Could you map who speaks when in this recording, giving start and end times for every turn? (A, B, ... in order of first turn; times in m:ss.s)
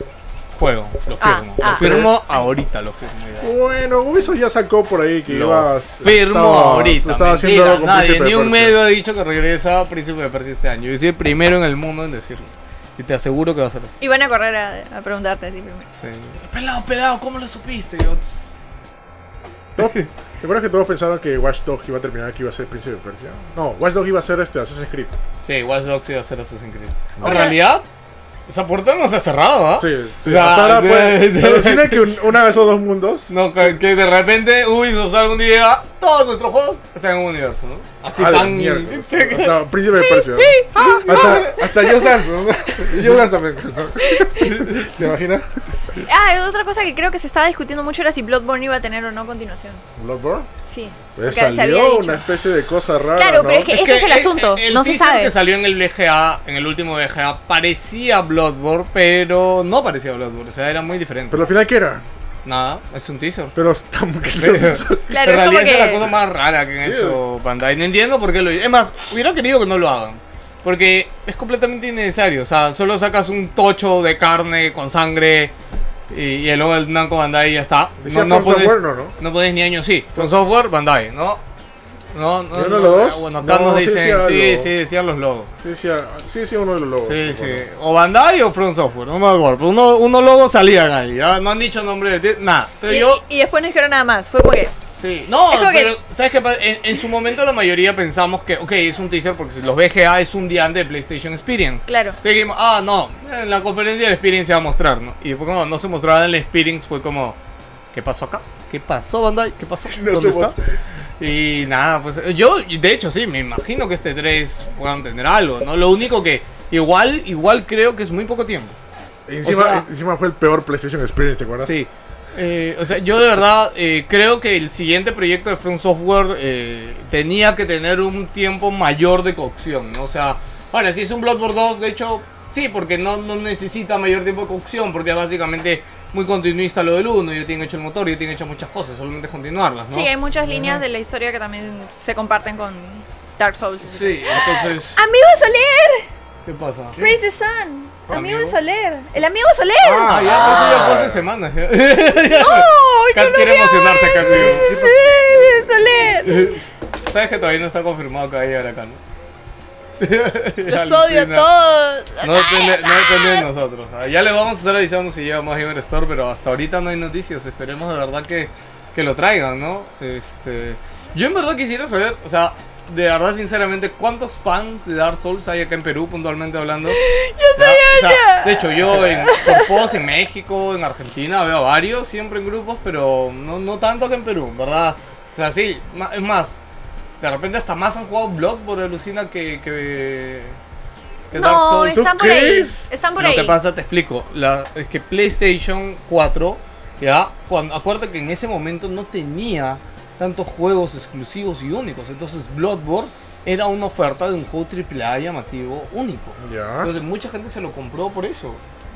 0:00.5-0:03.5 A
0:01.2-0:02.1 B
0:01.6-0:02.2 C
0:03.4-0:08.8 C
0:05.3-0:14.0 A
0:14.0-0:15.9 B
0:16.0-0:19.2 A
0:19.8-0:25.2 C
0:19.8-0:20.1 A
0:25.4-0:27.8 A
0:27.2-0:27.5 C
0:27.2-0:27.6 B
0:28.5-0:32.2 A
0:29.8-0:33.4 C
0:33.3-0:39.6 A
0:38.2-0:45.6 C
0:40.0-0:42.1 B
0:41.0-0:41.6 A
0:44.0-0:44.6 B
0:45.9-0:49.8 B
0:50.0-0:50.5 C
0:50.7-0:52.3 B
0:51.2-0:53.7 C
0:53.2-0:55.3 B
0:53.7-1:01.4 A
1:01.3-1:02.0 C
1:02.4-1:03.5 A
1:03.6-1:05.1 C
1:04.3-1:15.5 A
1:05.1-1:06.1 B
1:06.8-1:07.2 C
1:16.1-1:21.4 A
1:18.0-1:19.2 C
1:22.1-1:25.5 A
1:22.5-1:24.7 C
1:25.6-1:27.6 C
1:27.1-1:33.2 A
1:32.9-1:34.7 B
1:35.0-1:47.4 A
1:35.5-1:35.9 B
1:41.9-1:42.2 B
1:47.9-1:50.6 A
1:49.9-1:50.8 C
1:51.2-1:58.8 A
1:59.3-2:01.8 C
1:59.4-1:59.9 A
2:01.6-2:20.1 A
2:19.9-2:26.1 B
2:20.5-2:20.8 C
2:23.8-2:25.0 A
2:26.5-2:27.0 A
2:26.9-2:27.2 C
2:27.0-2:30.8 B
2:28.1-2:28.6 A
2:29.8-2:31.2 C
2:30.1-2:34.8 A
2:32.3-2:36.6 B
2:34.2-2:35.8 C
2:36.2-2:39.0 A
2:40.0-2:41.5 A
2:40.7-2:43.5 B
2:42.2-2:57.0 A
2:56.9-2:59.8 B
2:57.6-3:06.6 A
3:07.2-3:10.6 A
3:11.3-3:12.1 A
3:11.3-3:13.6 B
3:11.9-3:12.9 C
3:13.2-3:28.6 A
3:26.4-3:26.9 C